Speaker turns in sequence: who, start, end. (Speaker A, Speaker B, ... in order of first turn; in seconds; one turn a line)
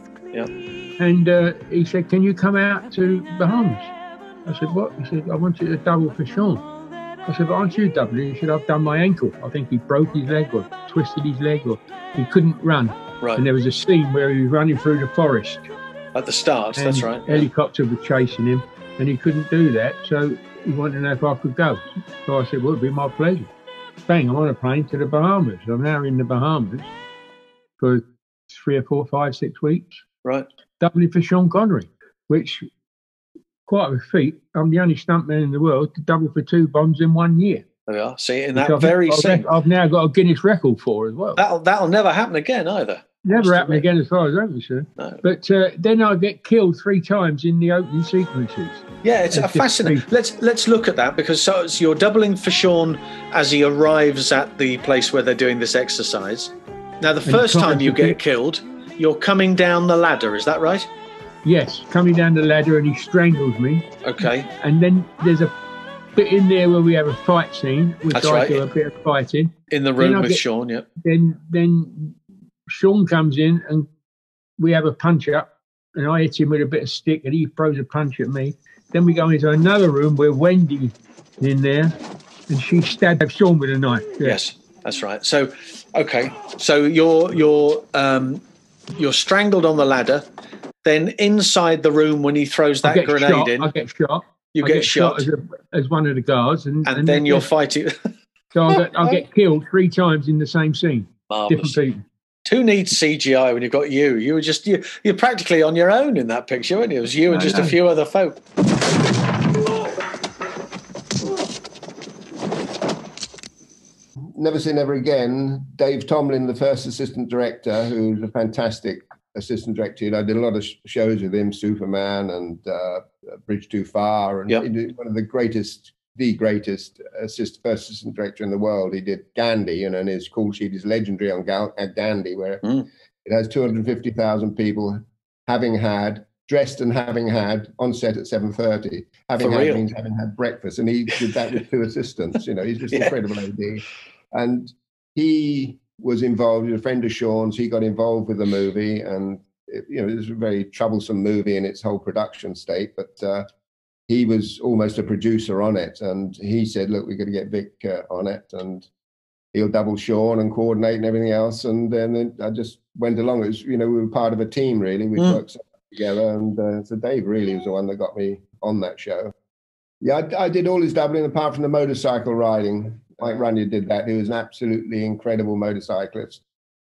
Speaker A: 1.0-3.9
Speaker A: 4.5-6.6
Speaker A: 7.2-15.7
Speaker B: 16.1-17.5
Speaker A: 16.8-23.5
Speaker A: 24.1-26.9
Speaker A: 27.8-30.0
Speaker A: 30.8-32.7
Speaker A: 33.7-37.6
Speaker B: 37.9-39.5
Speaker A: 38.5-41.4
Speaker B: 41.4-43.9
Speaker A: 43.2-50.0
Speaker B: 45.0-45.2
Speaker B: 49.0-60.9
Speaker A: 57.2-58.2
Speaker A: 61.4-65.5
Speaker B: 64.0-64.5
Speaker A: 66.2-70.4
Speaker B: 68.1-68.7
Speaker B: 69.7-70.9
Speaker A: 71.0-72.2
Speaker A: 72.7-73.9
Speaker A: 74.6-81.9
Speaker A: 82.5-84.4
Speaker B: 84.2-88.4
Speaker B: 89.0-90.2
Speaker B: 90.8-93.7
Speaker A: 92.8-97.5
Speaker B: 94.5-95.2
Speaker B: 96.8-97.9
Speaker A: 98.5-102.0
Speaker B: 101.3-101.8
Speaker B: 102.5-108.4
Speaker A: 107.3-107.8
Speaker C: 114.3-132.7
Speaker C: 133.2-153.5
Speaker B: 139.4-139.9
Speaker C: 154.1-158.9
Speaker C: 159.5-169.3
Speaker B: 165.2-165.4
Speaker C: 170.0-176.4